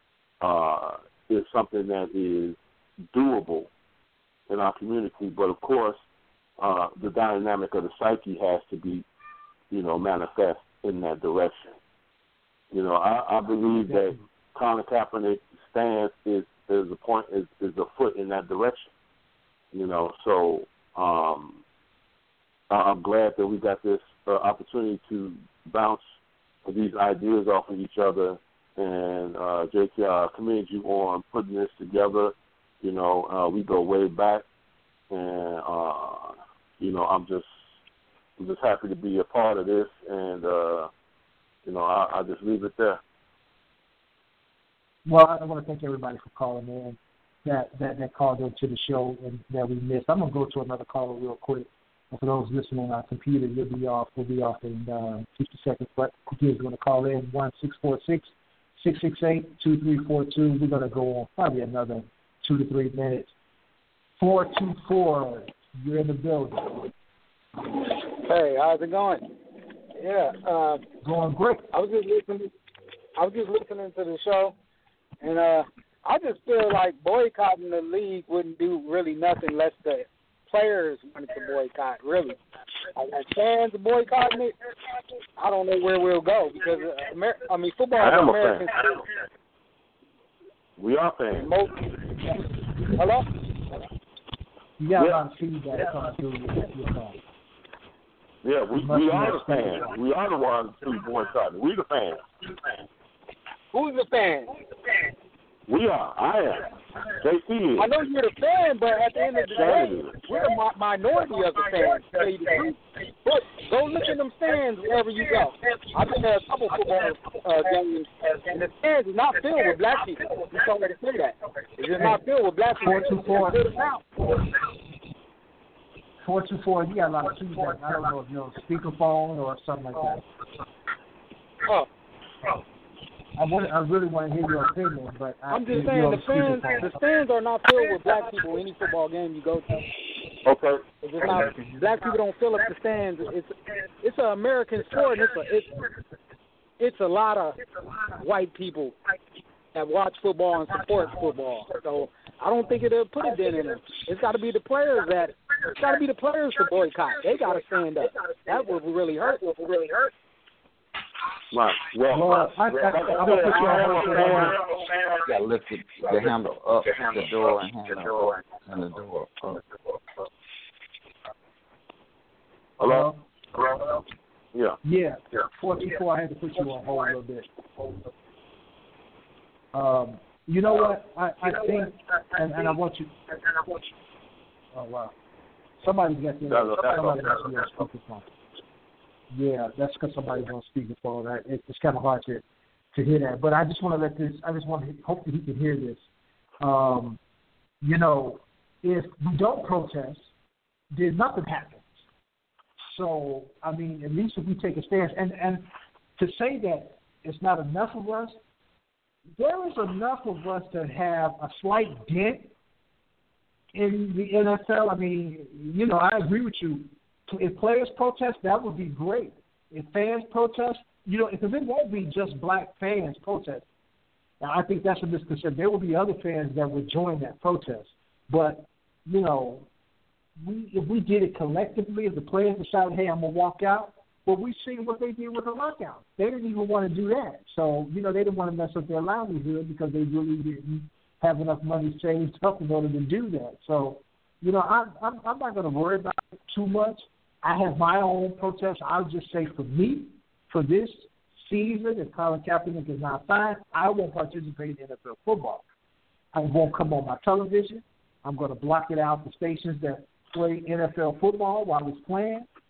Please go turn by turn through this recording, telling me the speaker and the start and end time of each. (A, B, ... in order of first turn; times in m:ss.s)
0:00.4-0:02.6 A
0:03.1-0:03.7 A
0:04.5-0:06.0 A
0:06.6-0:09.0 A
0:09.7-0:11.8 A
0:12.7-0:18.9 A
0:19.7-0:21.6 A
0:22.7-0:26.0 A
0:26.6-0:34.4 A
0:35.1-0:37.5 A
0:38.4-0:40.9 A
0:41.6-0:43.0 A
0:45.0-1:03.3 B
1:04.2-1:06.8 B
1:07.9-1:09.3 C
1:10.0-1:10.8 C
1:11.0-1:11.7 B
1:11.7-1:12.5 C
1:13.2-1:14.5 C
1:15.2-1:22.4 C
1:22.9-1:24.6 C
1:25.4-1:29.0 C
1:28.0-1:28.7 A
1:30.8-1:31.5 A
1:31.3-1:31.8 C
1:32.9-1:33.3 C
1:34.8-1:37.2 B
1:38.4-1:42.2 A
1:38.8-1:39.8 B
1:43.7-1:44.6 C
1:45.7-1:47.9 A
1:47.8-2:04.4 C
1:49.6-1:50.2 A
2:02.8-2:03.7 B
2:06.2-2:10.2 B
2:13.4-2:16.9 B
2:15.5-2:19.9 C
2:20.4-2:20.9 A
2:21.0-2:25.9 C
2:26.8-2:27.6 C
2:28.2-2:29.0 C
2:29.7-2:39.6 C
2:41.5-2:44.6 A
2:42.1-2:44.6 B
2:45.1-2:49.6 D
2:52.8-2:54.0 A
2:52.8-2:53.2 B
2:54.5-2:54.8 A
2:54.8-2:57.5 B
2:59.7-3:03.8 B
3:04.7-3:05.1 B
3:05.8-3:08.2 B
3:06.5-3:07.7 A
3:09.3-3:12.4 B
3:12.9-3:16.0 B
3:16.6-3:17.2 B
3:17.8-3:20.2 B
3:20.9-3:21.9 B
3:22.8-3:28.4 B
3:29.4-3:32.5 B
3:33.7-3:43.6 B
3:44.4-3:49.7 B
3:50.4-4:15.6 B
4:16.3-4:22.5 B